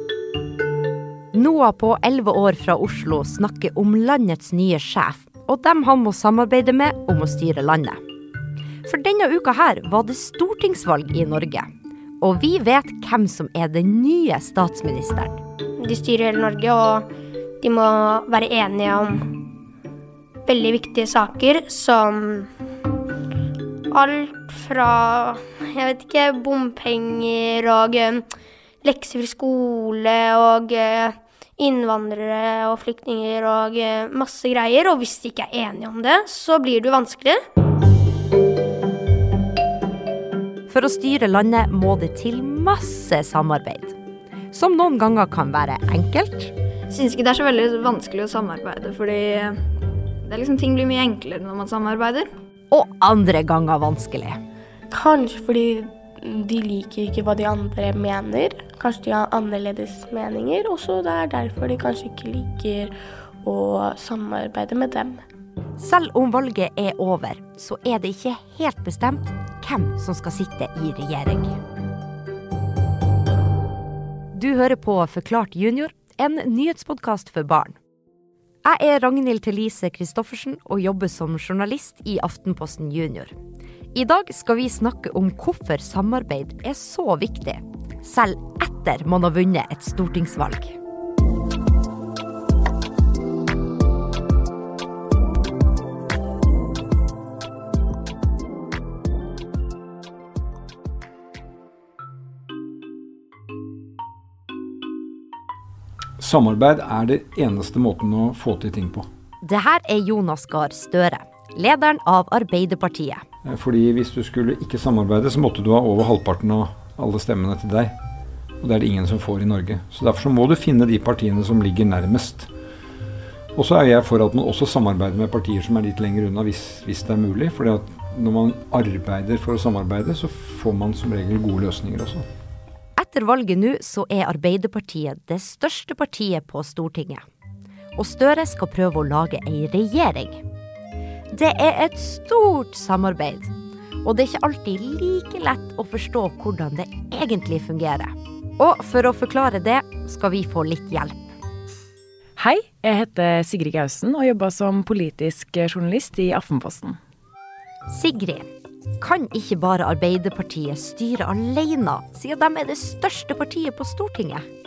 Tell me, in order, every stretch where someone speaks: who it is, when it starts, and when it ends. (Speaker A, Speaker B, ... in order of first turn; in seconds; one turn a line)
Speaker A: 1.3-8.0
Speaker A: 8.8-11.7
Speaker A: 12.2-15.4
Speaker B: 15.8-17.1
Speaker B: 17.6-19.5
Speaker B: 20.5-22.5
Speaker B: 23.9-28.3
Speaker B: 28.8-37.4
Speaker A: 40.7-44.0
Speaker A: 44.5-46.5
Speaker C: 46.9-49.7
Speaker C: 50.2-52.3
Speaker A: 52.7-54.4
Speaker D: 54.9-65.2
Speaker A: 65.8-71.6
Speaker A: 74.3-77.8
Speaker A: 78.6-83.3
Speaker A: 83.9-90.8
Speaker E: 106.2-109.0
Speaker A: 109.4-113.2
Speaker E: 113.5-117.9
Speaker E: 118.6-122.5
Speaker E: 123.6-132.2
Speaker A: 133.0-137.2
Speaker A: 137.9-140.4
Speaker A: 141.3-143.5
Speaker A: 144.0-151.3
Speaker F: 152.4-157.0
Speaker A: 157.9-158.4
Speaker A: 159.0-164.4